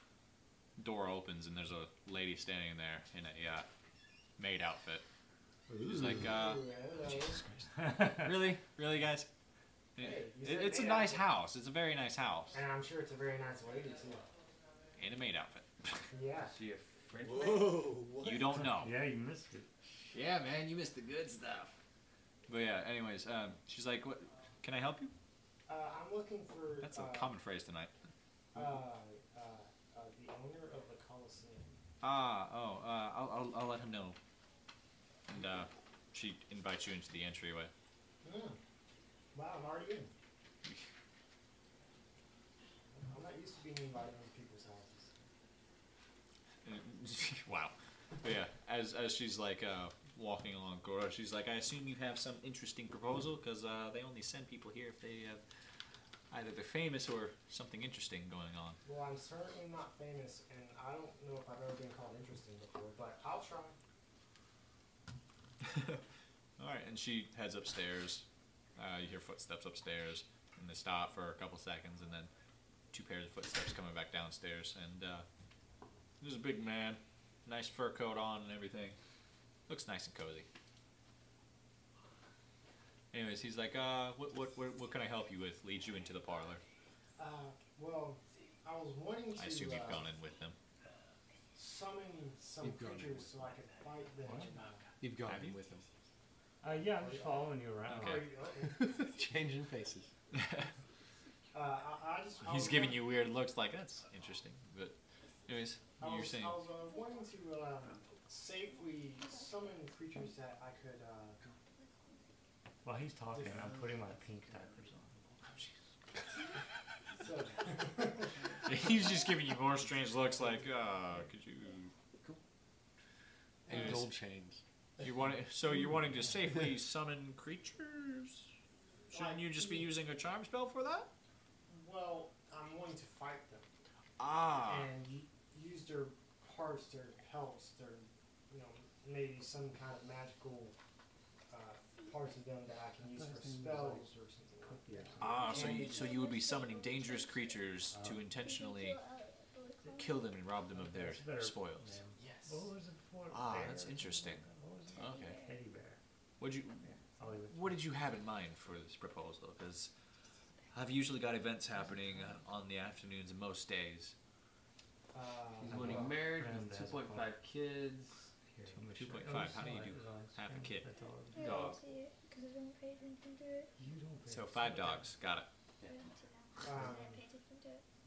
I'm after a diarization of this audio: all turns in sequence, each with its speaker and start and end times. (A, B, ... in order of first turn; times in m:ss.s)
0:00.8-0:03.7 A
0:04.4-0:05.0 A
0:05.7-0:06.3 B
0:05.8-0:09.3 A
0:06.0-0:07.4 C
0:07.8-0:08.4 B
0:10.0-0:12.6 A
0:10.0-0:11.2 C
0:12.5-0:14.2 C
0:15.0-0:16.1 A
0:16.1-0:16.6 C
0:16.4-0:17.8 D
0:17.3-0:18.5 E
0:17.6-0:18.9 A
0:18.5-0:19.7 B
0:20.1-0:21.8 A
0:22.5-0:25.1 A
0:25.7-0:27.3 C
0:26.8-0:27.9 A
0:28.5-0:31.8 C
0:32.0-0:34.2 A
0:35.3-0:37.7 A
0:38.2-0:38.6 C
0:39.3-0:40.1 C
0:43.0-0:45.2 C
0:46.6-0:55.4 A
0:56.3-0:58.8 A
0:58.8-1:03.8 C
1:05.6-1:06.0 A
1:06.6-1:12.3 A
1:12.9-1:15.3 A
1:16.2-1:19.0 A
1:19.7-1:20.5 A
1:23.1-1:26.6 A
1:27.2-1:30.1 C
1:29.3-1:30.6 A
1:31.5-1:34.9 C
1:32.6-1:33.5 E
1:34.2-1:34.5 B
1:35.0-1:35.9 E
1:35.2-1:35.6 A
1:36.6-1:38.3 B
1:36.8-1:38.9 C
1:37.9-1:38.3 A
1:38.7-1:40.1 E
1:40.3-1:40.7 A
1:41.5-1:43.1 C
1:42.4-1:44.9 A
1:45.4-1:46.6 A
1:46.0-1:51.4 C
1:46.7-1:47.4 F
1:48.6-1:49.8 F
1:51.8-1:52.2 F
1:52.8-1:55.4 B
1:53.3-1:54.2 C
1:57.2-1:58.4 C
1:58.6-2:01.9 A
2:03.6-2:04.6 E
2:03.7-2:04.1 A
2:05.0-2:08.5 A
2:09.1-2:09.9 C
2:09.1-2:11.1 A
2:11.7-2:13.6 C
2:14.2-2:14.9 A
2:14.6-2:20.8 C
2:21.5-2:26.2 C
2:21.8-2:22.4 F
2:23.0-2:24.1 B
2:24.6-2:25.4 B
2:25.2-2:29.0 A
2:25.3-2:30.4 F
2:27.9-2:28.2 B
2:29.9-2:31.9 A
2:30.7-2:36.0 B
2:32.2-2:32.7 C
2:33.3-2:34.4 A
2:34.9-2:35.6 F
2:35.0-2:35.4 A
2:36.4-2:36.8 A
2:36.8-2:37.8 B
2:37.5-2:39.9 A
2:40.7-2:44.1 A
2:45.1-2:46.2 C
2:45.6-2:47.3 B
2:45.6-2:48.3 D
2:48.5-2:51.6 B
2:48.9-2:50.9 A
2:51.3-2:53.7 F
2:51.4-2:51.8 D
2:53.8-2:55.1 B
2:54.3-2:55.5 A
2:55.8-2:57.8 F
2:56.6-2:57.2 C